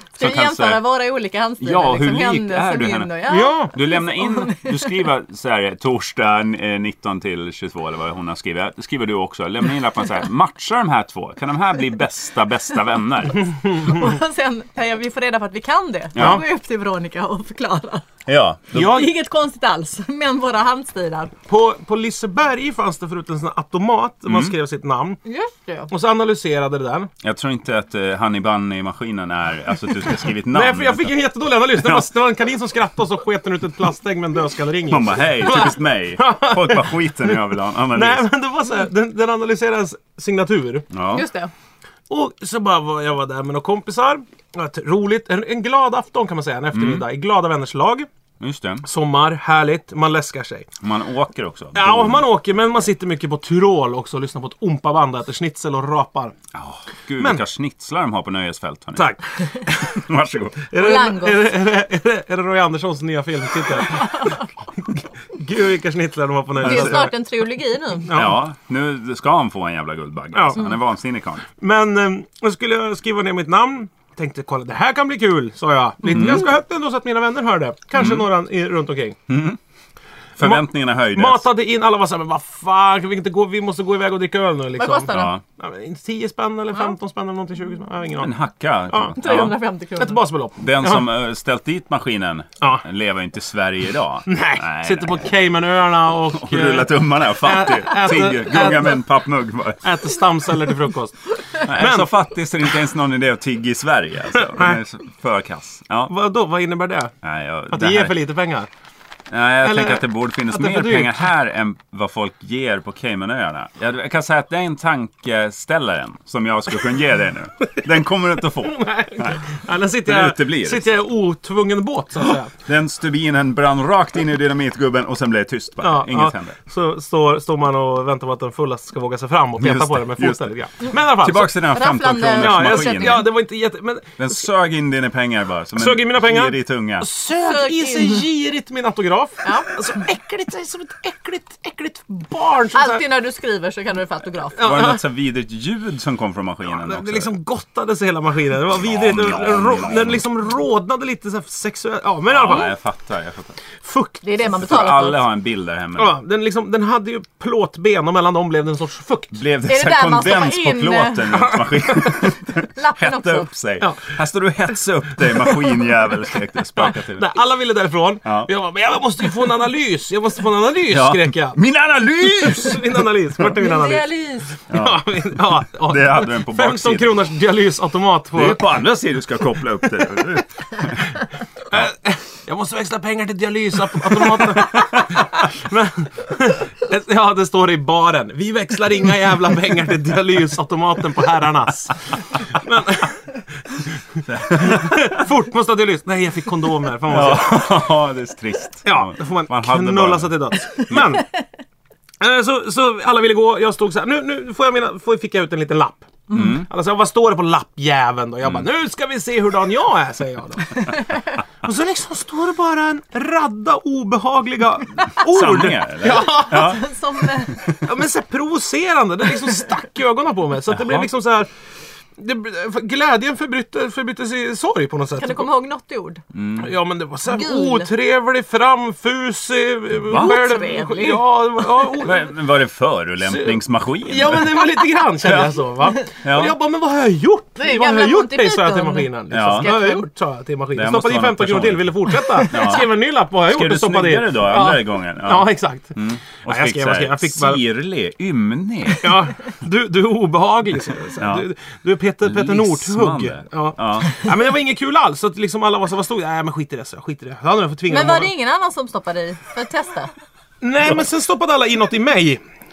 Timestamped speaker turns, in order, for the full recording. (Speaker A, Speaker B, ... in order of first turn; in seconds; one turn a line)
Speaker A: 0.2-5.1
Speaker B: 0.2-0.8
Speaker B: 1.6-3.2
Speaker C: 3.3-3.7
Speaker B: 3.7-13.5
Speaker A: 13.7-18.1
Speaker B: 16.1-16.4
Speaker C: 16.2-16.4
Speaker B: 18.3-18.9
Speaker C: 18.7-19.1
Speaker A: 18.8-21.3
Speaker C: 21.5-25.2
Speaker B: 24.3-24.5
Speaker A: 25.3-25.9
Speaker C: 25.9-27.1
Speaker B: 27.2-31.1
Speaker C: 30.5-37.4
Speaker B: 31.8-32.1
Speaker B: 34.9-38.2
Speaker C: 37.9-40.9
Speaker B: 40.9-41.3
Speaker A: 41.1-41.5
Speaker C: 42.1-48.1
Speaker B: 46.7-47.0
Speaker B: 48.4-48.9
Speaker C: 48.8-50.7
Speaker B: 50.8-52.3
Speaker C: 51.8-56.3
Speaker B: 56.5-59.2
Speaker C: 59.0-60.0
Speaker B: 59.9-60.7
Speaker C: 60.7-67.2
Speaker A: 60.7-61.5
Speaker A: 66.6-68.2
Speaker B: 66.6-67.1
Speaker C: 68.0-68.4
Speaker B: 68.1-71.5
Speaker C: 70.3-70.7
Speaker C: 71.5-79.2
Speaker B: 76.1-76.4
Speaker B: 78.0-78.2
Speaker B: 79.3-79.6
Speaker B: 80.4-81.5
Speaker C: 80.4-88.3
Speaker A: 84.8-85.4
Speaker B: 85.1-85.4
Speaker B: 88.2-89.6
Speaker C: 88.9-91.1
Speaker A: 89.2-90.2
Speaker B: 90.6-95.3
Speaker C: 94.3-99.0
Speaker B: 96.3-99.8
Speaker C: 99.8-102.1
Speaker B: 101.6-106.1
Speaker C: 104.3-104.8
Speaker C: 106.1-107.1
Speaker B: 107.2-108.2
Speaker C: 107.7-108.7
Speaker B: 109.3-119.5
Speaker C: 109.6-111.1
Speaker C: 118.6-122.5
Speaker B: 120.0-120.9
Speaker B: 122.6-126.6
Speaker C: 125.8-131.7
Speaker B: 129.6-133.3
Speaker A: 131.7-133.3
Speaker C: 132.4-134.4
Speaker B: 134.2-137.1
Speaker C: 135.8-143.1
Speaker A: 137.4-138.2
Speaker A: 139.4-139.7
Speaker A: 142.8-144.7
Speaker C: 144.6-145.0
Speaker B: 144.6-147.3
Speaker C: 146.8-152.7
Speaker B: 148.7-150.2
Speaker B: 152.3-153.6
Speaker C: 153.8-154.2
Speaker A: 154.2-155.3
Speaker B: 154.6-156.2
Speaker C: 156.0-159.4
Speaker B: 159.3-167.3
Speaker A: 159.7-161.6
Speaker A: 162.7-163.5
Speaker C: 166.9-171.6
Speaker B: 168.2-168.5
Speaker B: 170.9-172.9
Speaker C: 172.4-174.1
Speaker A: 173.6-174.6
Speaker B: 174.7-175.1
Speaker C: 174.7-178.6
Speaker B: 175.6-177.3
Speaker B: 178.3-181.1
Speaker C: 181.7-197.8
Speaker B: 194.2-195.2
Speaker B: 197.1-201.1
Speaker C: 198.8-201.3
Speaker C: 202.2-216.9
Speaker B: 206.3-206.7
Speaker B: 215.1-216.8
Speaker A: 216.2-217.7
Speaker B: 217.6-217.8
Speaker C: 217.7-221.5
Speaker B: 220.7-221.1
Speaker C: 222.2-225.5
Speaker A: 225.2-226.2
Speaker B: 226.3-226.7
Speaker C: 226.6-232.3
Speaker A: 227.3-227.9
Speaker A: 230.1-231.2
Speaker B: 230.1-230.4
Speaker B: 232.0-234.6
Speaker C: 233.3-247.6
Speaker B: 235.2-235.5
Speaker B: 236.0-236.6
Speaker A: 237.6-240.1
Speaker B: 239.3-239.8
Speaker B: 240.7-249.2
Speaker C: 249.0-258.3
Speaker B: 251.2-251.5
Speaker B: 252.2-254.3
Speaker A: 257.9-260.1
Speaker C: 260.6-262.4